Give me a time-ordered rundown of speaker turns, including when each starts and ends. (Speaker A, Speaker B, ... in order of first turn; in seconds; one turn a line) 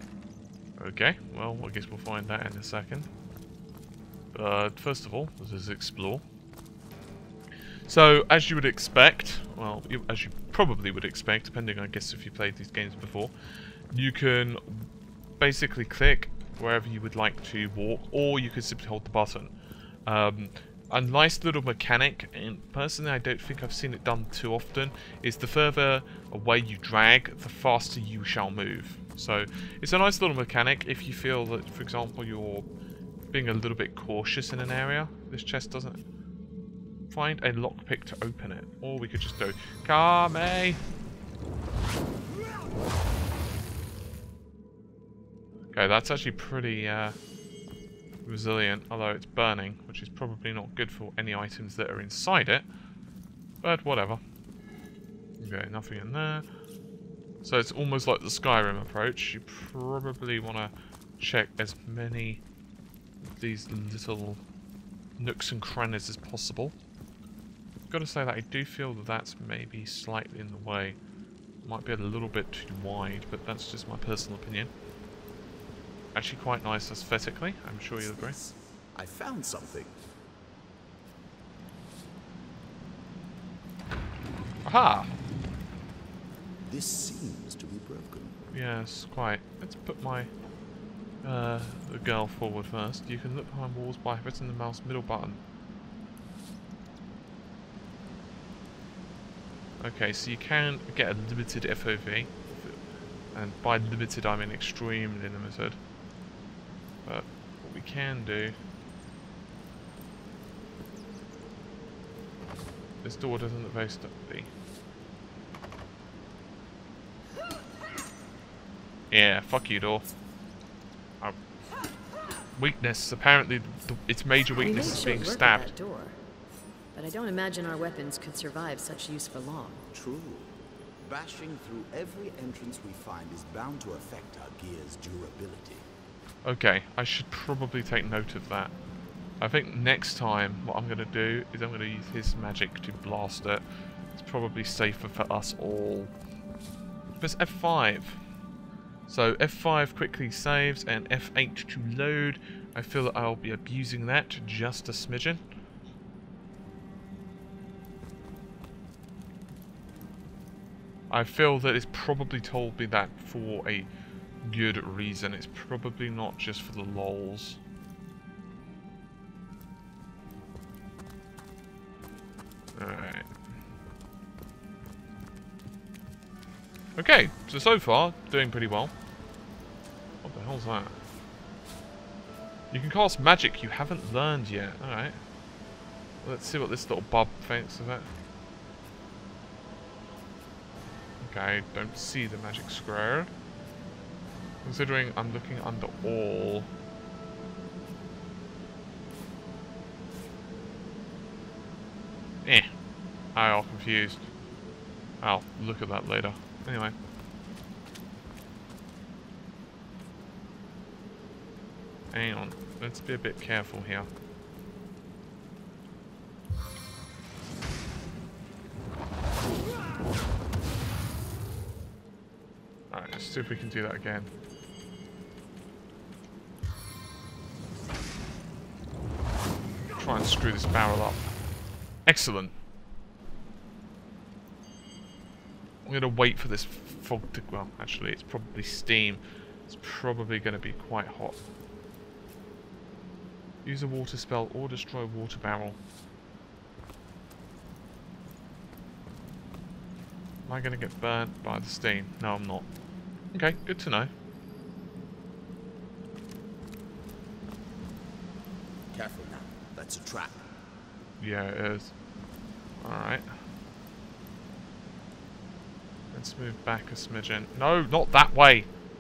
Speaker A: 0.8-3.1
Speaker A: 4.3-6.2
Speaker A: 7.9-13.3
Speaker A: 13.9-14.9
Speaker A: 15.4-19.5
Speaker A: 20.1-32.7
Speaker A: 33.3-36.0
Speaker A: 37.1-40.8
Speaker A: 45.7-47.2
Speaker A: 48.3-52.7
Speaker A: 53.6-54.2
Speaker A: 55.4-56.5
Speaker A: 57.4-62.4
Speaker A: 63.3-64.4
Speaker A: 65.2-66.8
Speaker A: 67.9-71.0
Speaker A: 71.6-74.7
Speaker A: 76.1-78.4
Speaker B: 78.0-80.0
Speaker A: 84.7-85.1
Speaker B: 86.6-88.4
Speaker A: 88.5-90.3
Speaker A: 91.2-95.4
Speaker A: 99.8-102.8
Speaker A: 103.3-105.8
Speaker A: 107.0-108.6
Speaker A: 113.0-114.5
Speaker A: 119.1-120.1
Speaker A: 122.6-125.7
Speaker C: 124.5-126.2
Speaker C: 127.0-129.8
Speaker B: 129.9-135.9
Speaker A: 136.4-138.7
Speaker A: 139.4-146.1
Speaker A: 147.2-148.2
Speaker A: 149.1-155.4
Speaker A: 161.1-163.9
Speaker A: 164.4-167.6
Speaker A: 172.8-173.3
Speaker A: 177.0-178.9
Speaker A: 180.2-181.0
Speaker A: 182.7-185.2
Speaker A: 186.2-188.1
Speaker A: 191.2-193.3
Speaker A: 194.6-196.7
Speaker A: 202.4-202.7
Speaker A: 203.3-204.3
Speaker A: 205.2-206.9
Speaker A: 212.1-214.1
Speaker A: 222.9-224.3
Speaker A: 229.9-231.3
Speaker A: 232.1-232.5
Speaker A: 235.8-241.4
Speaker A: 243.6-245.8
Speaker A: 250.4-252.7
Speaker A: 253.3-254.1
Speaker B: 258.9-260.4
Speaker A: 261.2-261.9
Speaker A: 262.8-263.3
Speaker A: 266.1-268.7